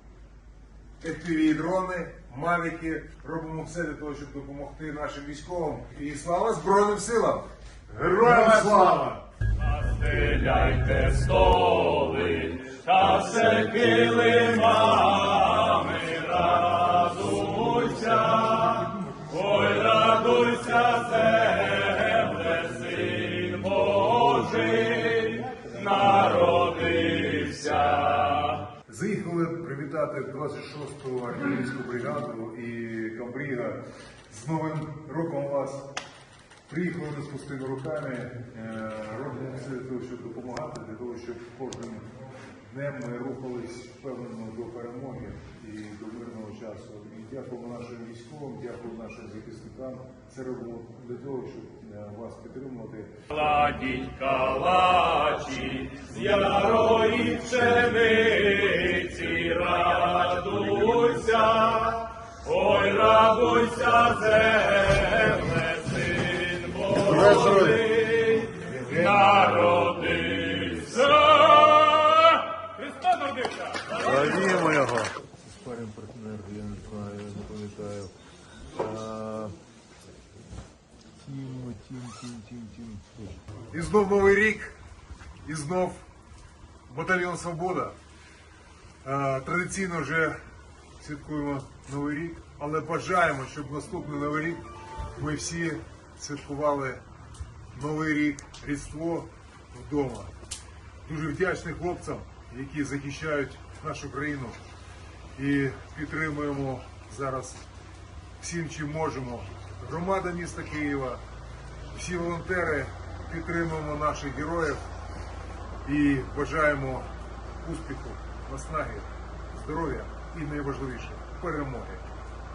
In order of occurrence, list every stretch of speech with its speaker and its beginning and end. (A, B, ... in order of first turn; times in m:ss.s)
0:01.0-0:09.2 A
0:08.2-0:09.1 B
0:09.6-0:28.7 C
0:28.9-0:36.0 A
0:36.7-0:42.1 A
0:42.7-0:53.1 A
0:53.3-1:14.4 C
1:07.1-1:07.8 B
1:14.0-1:18.1 B
1:18.8-1:19.5 B
1:21.2-1:23.4 B
1:23.6-1:24.8 A
1:25.4-1:26.0 A
1:26.9-1:28.0 A
1:29.0-1:30.4 A
1:31.0-1:34.6 A
1:35.2-1:37.0 A
1:37.7-1:40.3 A
1:41.0-1:44.6 A
1:45.4-1:47.6 A
1:48.4-1:51.2 A
1:51.9-1:54.8 A
1:55.8-1:57.1 A
1:57.6-2:02.0 A